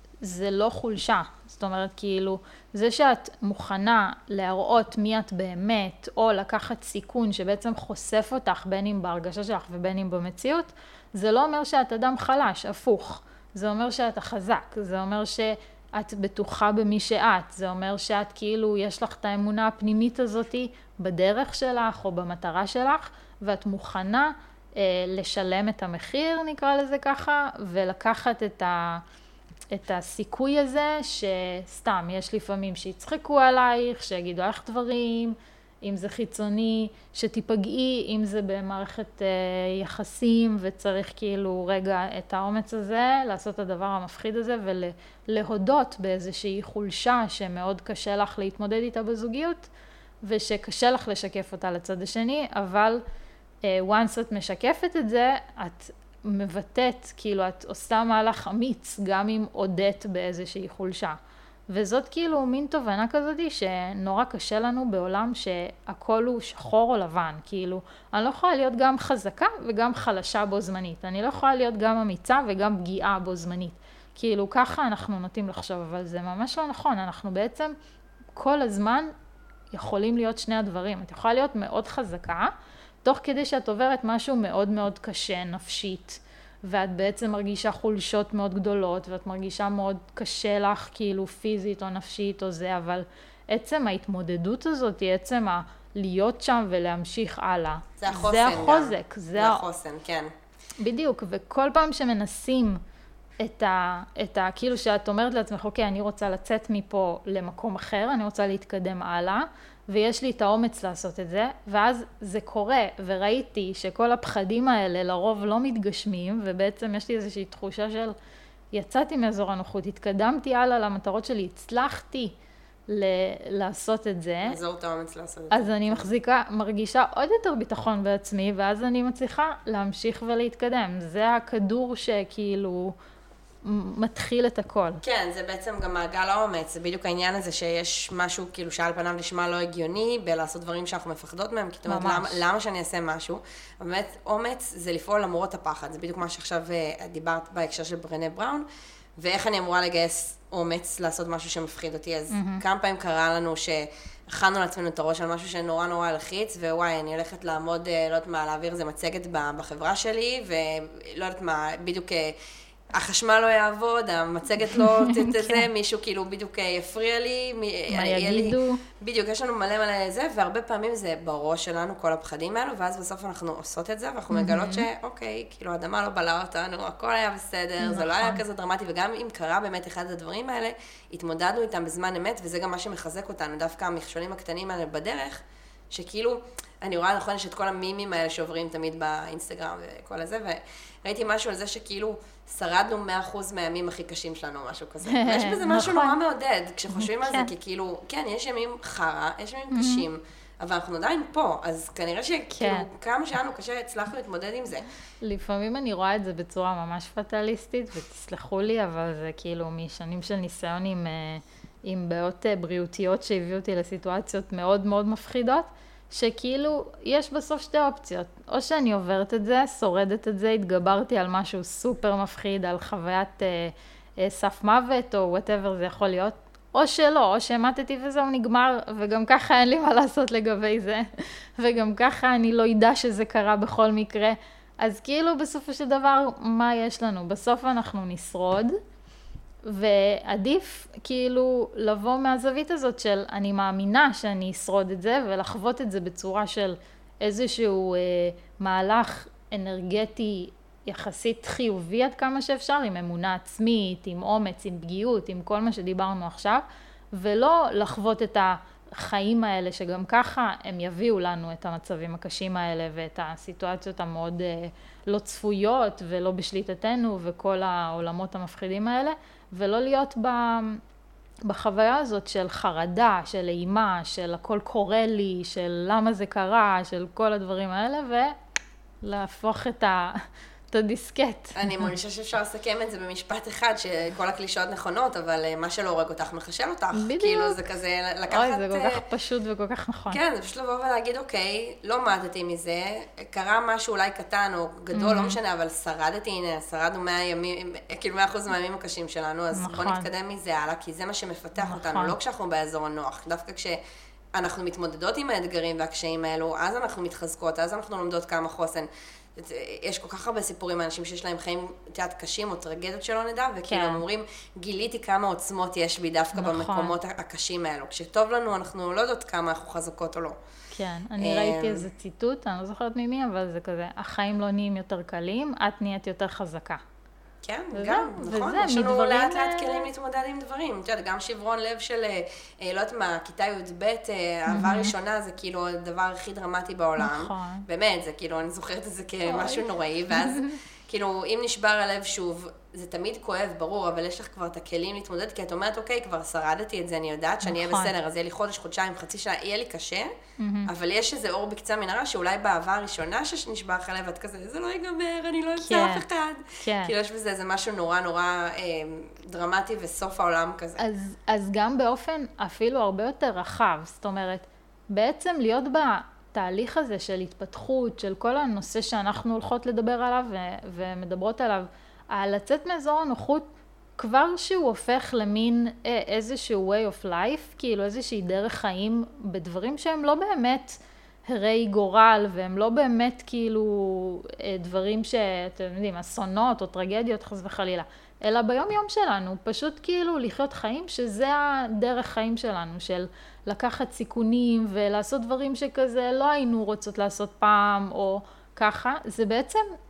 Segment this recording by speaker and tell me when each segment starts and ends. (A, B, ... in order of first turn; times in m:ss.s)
0:00.2-0:29.0 A
0:29.7-0:49.7 A
0:50.2-0:53.0 A
0:53.6-1:01.2 A
1:01.7-1:17.8 A
1:18.4-1:19.1 A
1:19.7-1:22.5 A
1:23.0-1:39.6 A
1:38.0-1:40.3 B
1:40.8-1:42.8 A
1:43.4-1:58.2 A
1:58.7-2:02.3 A
2:02.9-2:04.6 A
2:04.4-2:06.1 B
2:05.5-2:12.9 A
2:13.6-2:15.0 A
2:15.0-2:28.7 B
2:21.8-2:22.4 A
2:29.2-2:42.4 B
2:32.3-2:32.6 A
2:42.9-3:24.9 B
2:44.7-2:45.7 A
2:47.9-2:48.8 A
2:54.3-2:54.9 A
2:57.8-2:58.4 A
3:15.0-3:16.2 A
3:16.9-3:17.5 A
3:19.7-3:20.1 A
3:22.6-3:22.9 A
3:25.2-3:58.8 A
3:59.7-4:30.8 A
4:31.5-4:38.4 A
4:39.0-4:41.9 A
4:41.5-4:49.0 B
4:46.9-4:47.6 A
4:48.3-4:50.2 A
4:50.1-5:03.8 B
4:54.9-4:55.4 A
4:59.5-5:00.1 A
5:01.6-5:02.2 A
5:04.3-5:20.4 B
5:13.7-5:14.0 A
5:16.3-5:17.0 A
5:20.7-5:26.8 A
5:21.2-5:21.9 B
5:27.4-5:50.1 B
5:27.7-5:29.9 A
5:34.5-5:34.9 A
5:37.0-5:37.7 A
5:39.2-5:40.6 A
5:47.4-5:47.9 A
5:50.4-5:50.7 A
5:50.7-6:00.8 B
5:55.6-5:56.0 A
5:56.6-5:56.9 A
6:00.8-6:13.5 A
6:14.0-6:39.7 A